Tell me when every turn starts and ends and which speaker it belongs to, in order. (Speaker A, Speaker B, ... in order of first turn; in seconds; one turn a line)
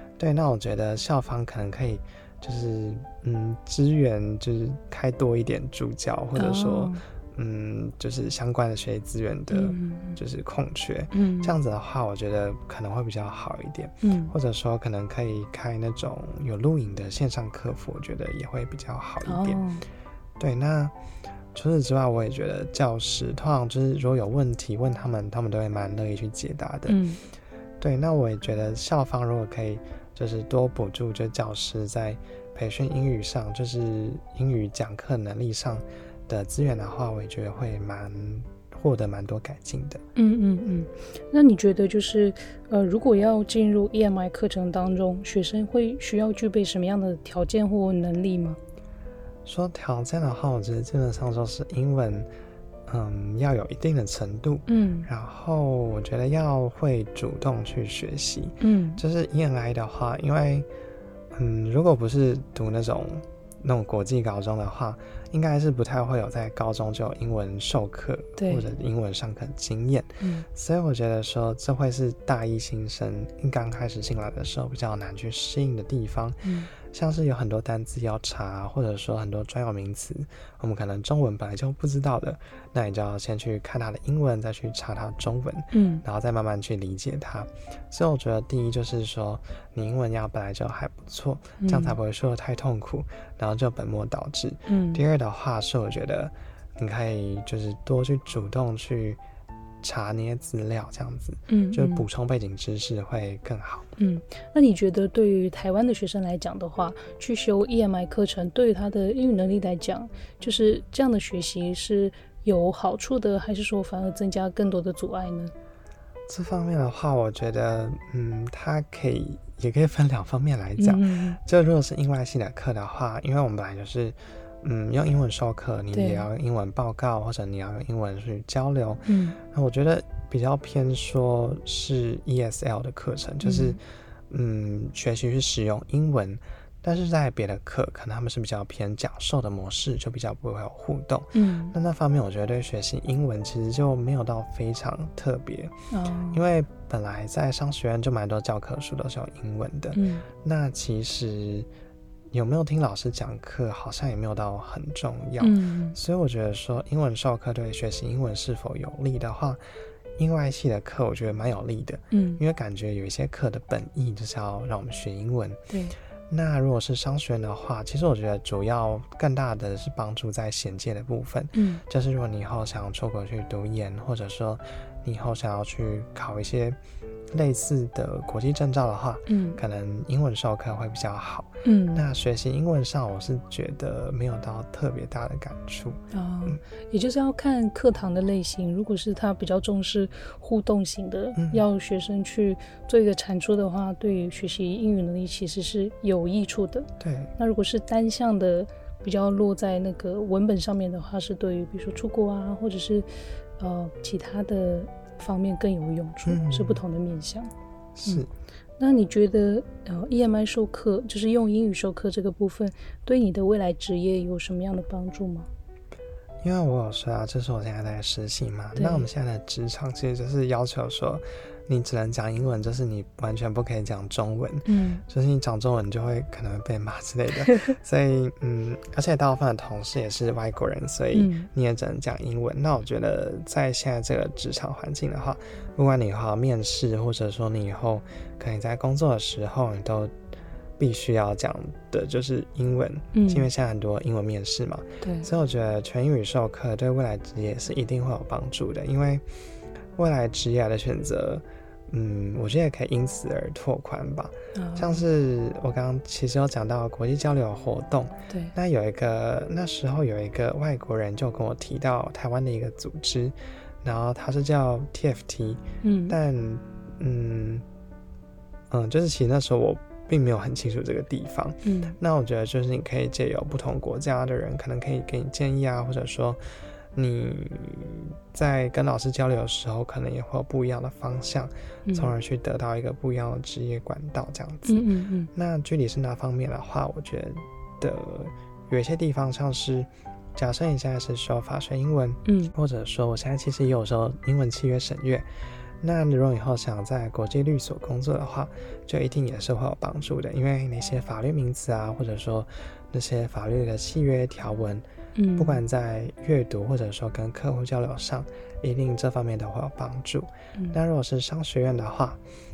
Speaker A: 0.2-19.6
Speaker B: 6.4-7.0
Speaker B: 9.5-10.2
Speaker B: 11.1-11.6
Speaker B: 14.0-14.3
Speaker B: 19.2-19.8
Speaker A: 20.4-20.9
Speaker A: 21.5-27.0
Speaker B: 26.9-27.2
Speaker A: 27.8-40.0
Speaker B: 40.2-48.6
Speaker A: 49.5-52.3
Speaker A: 52.9-60.7
Speaker B: 54.7-55.1
Speaker B: 58.6-59.0
Speaker A: 61.3-99.2
Speaker B: 68.4-68.7
Speaker B: 70.2-70.5
Speaker B: 76.4-76.7
Speaker B: 85.7-86.0
Speaker B: 91.6-92.0
Speaker B: 94.7-95.0
Speaker A: 99.8-103.9
Speaker B: 101.5-102.1
Speaker B: 104.0-115.5
Speaker A: 116.3-133.8
Speaker B: 120.8-121.4
Speaker B: 125.9-126.3
Speaker B: 129.1-129.4
Speaker B: 133.4-133.8
Speaker A: 134.3-145.7
Speaker B: 141.3-141.8
Speaker B: 145.9-146.4
Speaker A: 146.3-151.7
Speaker B: 149.9-150.2
Speaker A: 152.3-159.6
Speaker B: 155.4-156.0
Speaker A: 160.2-165.6
Speaker B: 162.1-162.4
Speaker B: 165.7-165.9
Speaker A: 166.3-176.8
Speaker B: 171.6-171.8
Speaker A: 177.3-186.6
Speaker B: 179.3-179.6
Speaker B: 181.6-182.1
Speaker B: 186.1-207.5
Speaker A: 191.4-191.6
Speaker A: 197.0-197.3
Speaker A: 206.3-206.8
Speaker A: 208.0-208.3
Speaker B: 208.8-215.5
Speaker A: 216.4-240.1
Speaker B: 218.8-219.1
Speaker B: 224.7-225.0
Speaker B: 231.1-231.5
Speaker A: 240.8-249.2
Speaker B: 243.1-243.5
Speaker B: 245.0-245.3
Speaker A: 250.0-267.6
Speaker B: 254.5-255.1
Speaker B: 258.3-258.5
Speaker B: 265.8-266.2
Speaker A: 268.7-276.4
Speaker B: 271.6-272.0
Speaker A: 276.9-295.3
Speaker B: 281.9-282.1
Speaker B: 284.7-285.3
Speaker B: 292.3-292.5
Speaker A: 295.8-304.9
Speaker B: 305.2-305.6
Speaker A: 305.4-312.2